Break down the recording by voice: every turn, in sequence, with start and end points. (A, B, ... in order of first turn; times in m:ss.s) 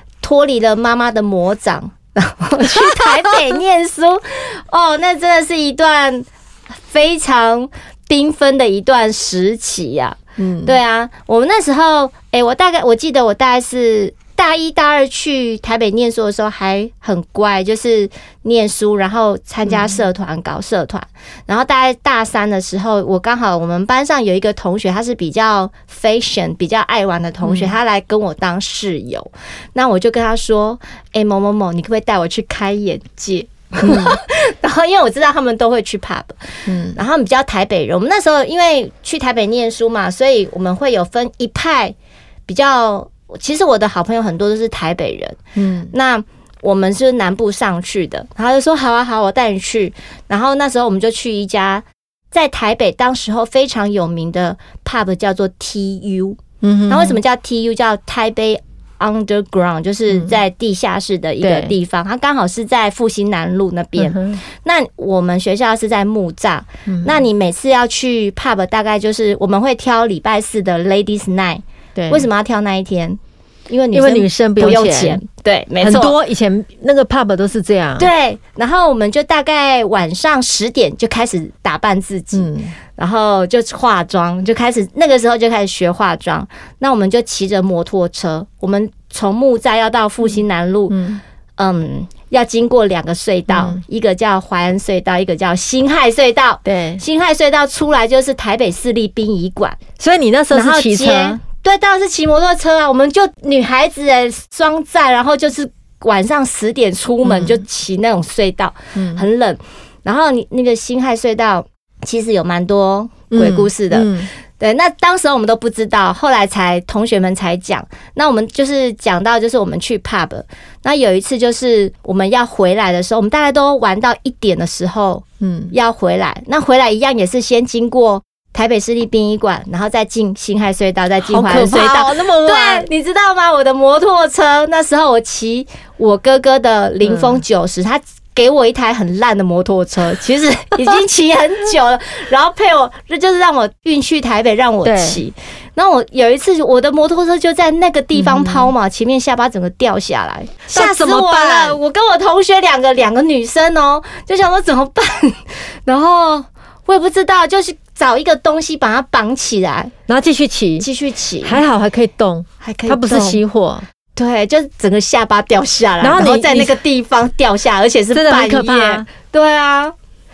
0:00.2-0:36.4 A
0:02.7-0:03.4 B
0:10.4-0:10.8 B
0:19.6-0:19.9 B
0:27.4-0:27.7 B
0:33.8-0:34.2 B
0:36.7-0:37.0 B
0:36.9-0:41.9 A
0:42.5-0:45.4 A
0:45.6-0:45.9 B
0:45.9-1:16.2 A
0:56.6-0:57.2 B
1:01.4-1:01.7 B
1:04.0-1:04.4 B
1:06.9-1:07.2 B
1:12.0-1:12.3 B
1:13.9-1:15.2 B
1:15.8-1:18.1 B
1:18.0-1:31.0 A
1:22.3-1:22.7 B
1:30.9-1:31.2 B
1:31.6-1:39.8 A
1:33.5-1:33.8 B
1:36.6-1:37.0 B
1:40.0-1:41.4 B
1:40.5-2:39.9 A
1:47.2-1:47.6 B
1:48.9-1:49.2 B
1:53.3-1:54.3 B
2:05.4-2:05.7 B
2:11.3-2:12.9 B
2:17.0-2:17.4 B
2:24.8-2:25.2 B
2:28.1-2:28.7 B
2:30.7-2:31.8 B
2:40.1-2:40.9 B
2:40.8-2:41.6 A
2:41.4-2:43.8 B
2:42.6-2:43.4 A
2:44.2-2:49.9 A
2:46.0-2:46.8 B
2:48.1-2:49.1 B